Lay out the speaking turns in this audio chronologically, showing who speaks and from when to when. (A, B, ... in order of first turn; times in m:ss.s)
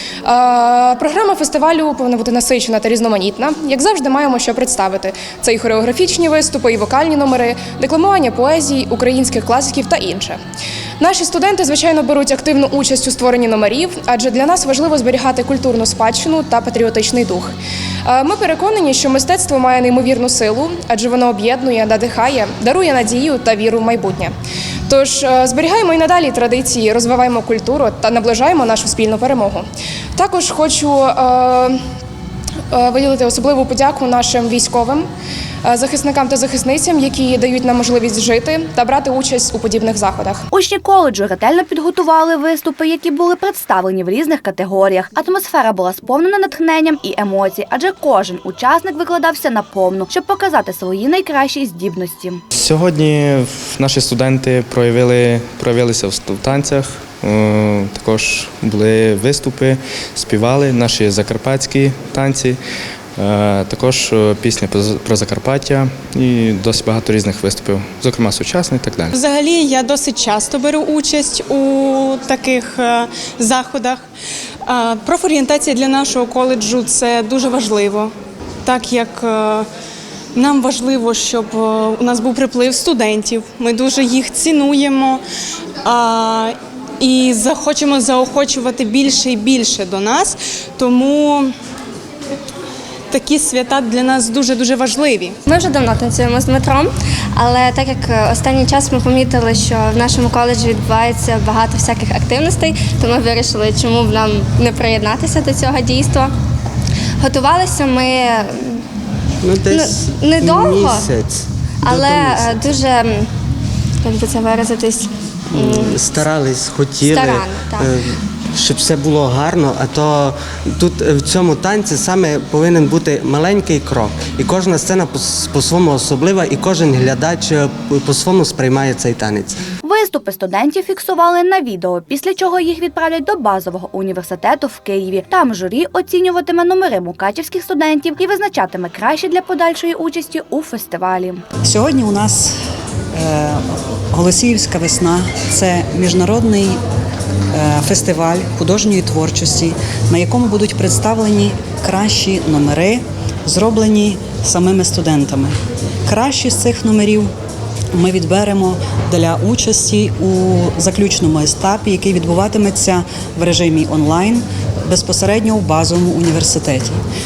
0:00.2-0:10.4 A
0:11.0-0:24.3 A
0:24.9-0:31.8 A
0:32.7-0:35.1 A
0:35.6-0:40.4 A
0:40.5-0:52.4 B
0:52.5-1:02.6 C
1:03.2-1:09.1 C
1:09.1-1:14.0 D
1:14.6-1:18.1 D
1:18.6-1:19.6 D
1:20.3-1:25.2 D
1:25.8-1:31.5 D
1:33.1-1:35.3 D
1:35.4-1:46.3 E
1:47.2-1:48.8 E
1:49.4-1:52.6 F
1:49.7-1:51.1 E
1:51.8-1:53.3 E
1:54.0-1:55.9 E
1:55.5-2:09.6 F
1:57.0-1:57.8 E
2:09.8-2:21.4 B
2:21.6-2:22.5 G
2:23.1-2:26.8 G
2:27.5-2:35.5 G
2:36.0-2:37.3 G
2:37.9-2:46.9 G